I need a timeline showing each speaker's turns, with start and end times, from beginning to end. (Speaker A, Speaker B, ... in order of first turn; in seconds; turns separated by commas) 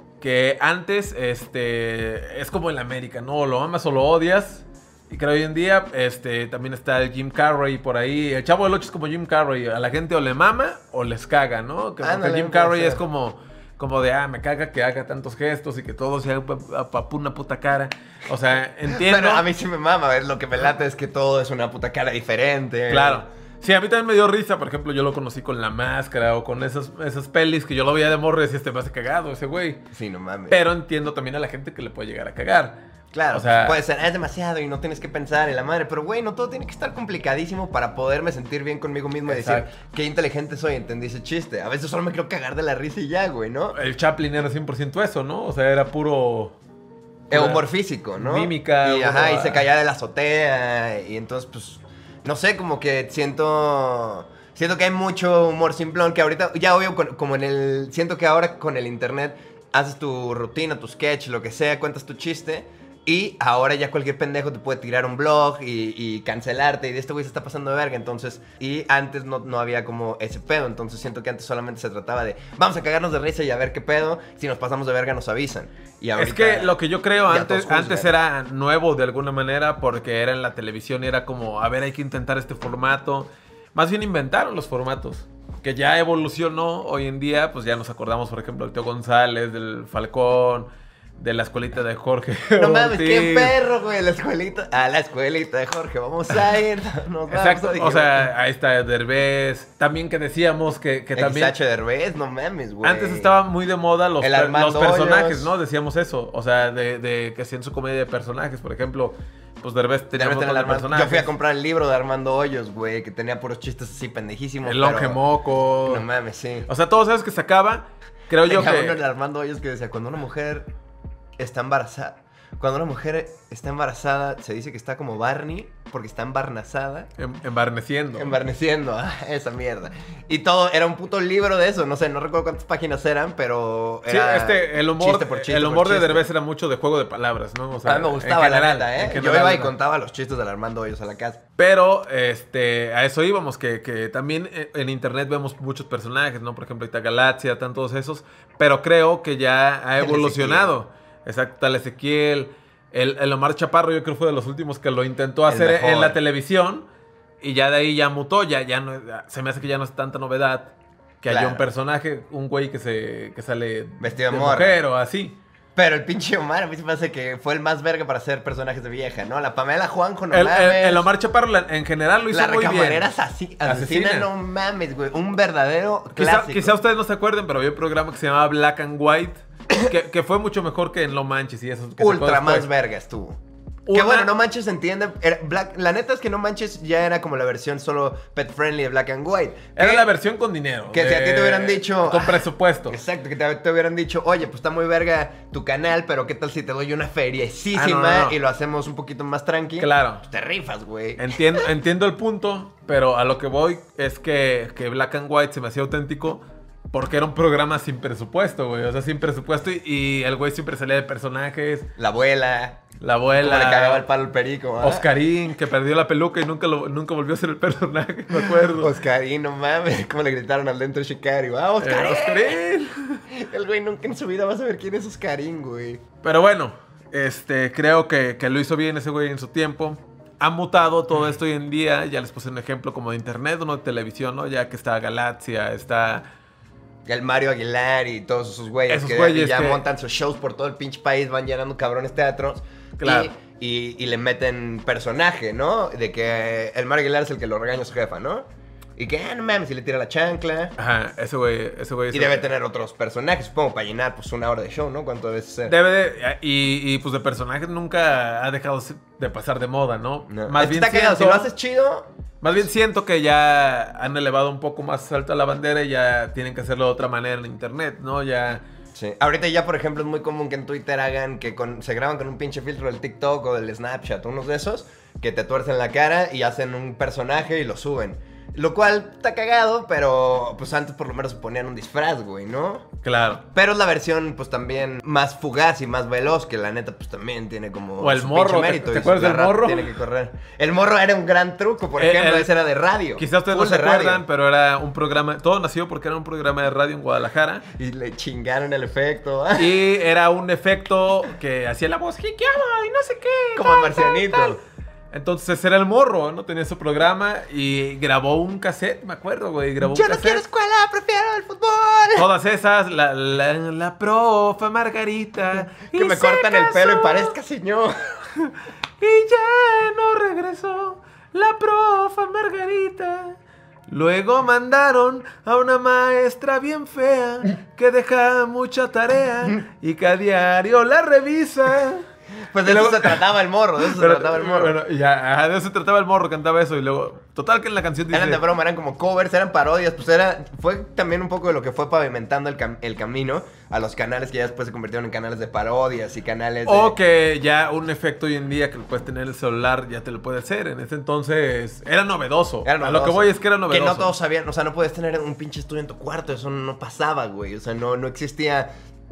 Speaker A: 0.2-19.4, Speaker B: 12.0-13.0, Speaker B: 18.9-23.2, Speaker A: 22.9-29.8, Speaker B: 29.9-30.6, Speaker A: 30.5-32.8, Speaker B: 33.1-43.8, Speaker A: 33.3-33.8, Speaker A: 39.2-39.7, Speaker A: 43.7-46.5, Speaker B: 47.3-76.7, Speaker A: 47.3-49.6, Speaker A: 76.2-93.5, Speaker B: 77.2-78.1, Speaker B: 92.6-98.3, Speaker A: 97.3-101.5, Speaker B: 101.1-103.3, Speaker A: 102.8-111.3, Speaker B: 104.2-105.5, Speaker B: 110.1-115.2, Speaker A: 114.6-116.0, Speaker B: 115.8-116.7, Speaker A: 116.7-119.0, Speaker B: 118.4-120.7, Speaker B: 121.4-127.1, Speaker A: 127.2-128.3, Speaker B: 128.2-136.2, Speaker A: 134.1-139.7, Speaker B: 137.8-141.4, Speaker A: 141.6-156.9, Speaker B: 150.0-150.7, Speaker B: 155.5-156.2, Speaker A: 157.4-165.4, Speaker B: 161.3-161.6, Speaker B: 164.0-164.8, Speaker B: 165.8-171.1, Speaker A: 170.3-173.1, Speaker B: 172.3-176.7, Speaker A: 173.6-174.3, Speaker A: 176.1-182.7, Speaker B: 182.0-183.4, Speaker A: 183.8-184.3, Speaker B: 183.9-190.1, Speaker A: 189.8-192.9, Speaker B: 190.9-201.4, Speaker A: 197.7-198.3, Speaker A: 199.8-200.2, Speaker A: 201.2-211.9, Speaker B: 212.0-212.8, Speaker A: 213.0-214.1, Speaker B: 213.3-215.0, Speaker A: 214.8-218.9, Speaker B: 218.3-222.6, Speaker A: 221.8-223.2, Speaker B: 223.3-226.0, Speaker A: 226.2-236.2, Speaker B: 237.1-248.4, Speaker A: 238.9-239.8, Speaker A: 243.0-243.3, Speaker B: 249.0-250.7, Speaker A: 250.8-252.5, Speaker B: 252.1-255.7, Speaker A: 255.7-261.5, Speaker B: 260.3-262.1, Speaker A: 262.4-268.6, Speaker B: 268.9-282.9, Speaker A: 283.0-283.4, Speaker B: 283.5-294.2, Speaker A: 288.0-289.9, Speaker A: 292.0-292.5, Speaker A: 293.2-297.6, Speaker B: 297.7-299.8, Speaker A: 299.6-304.6, Speaker B: 303.6-304.6, Speaker A: 305.1-310.4, Speaker B: 309.8-312.3, Speaker A: 312.1-317.3, Speaker B: 315.9-317.9, Speaker A: 319.0-332.1, Speaker B: 332.5-334.7, Speaker A: 332.6-333.2, Speaker A: 333.8-338.4, Speaker B: 338.1-346.9, Speaker A: 346.6-354.1, Speaker B: 352.6-358.7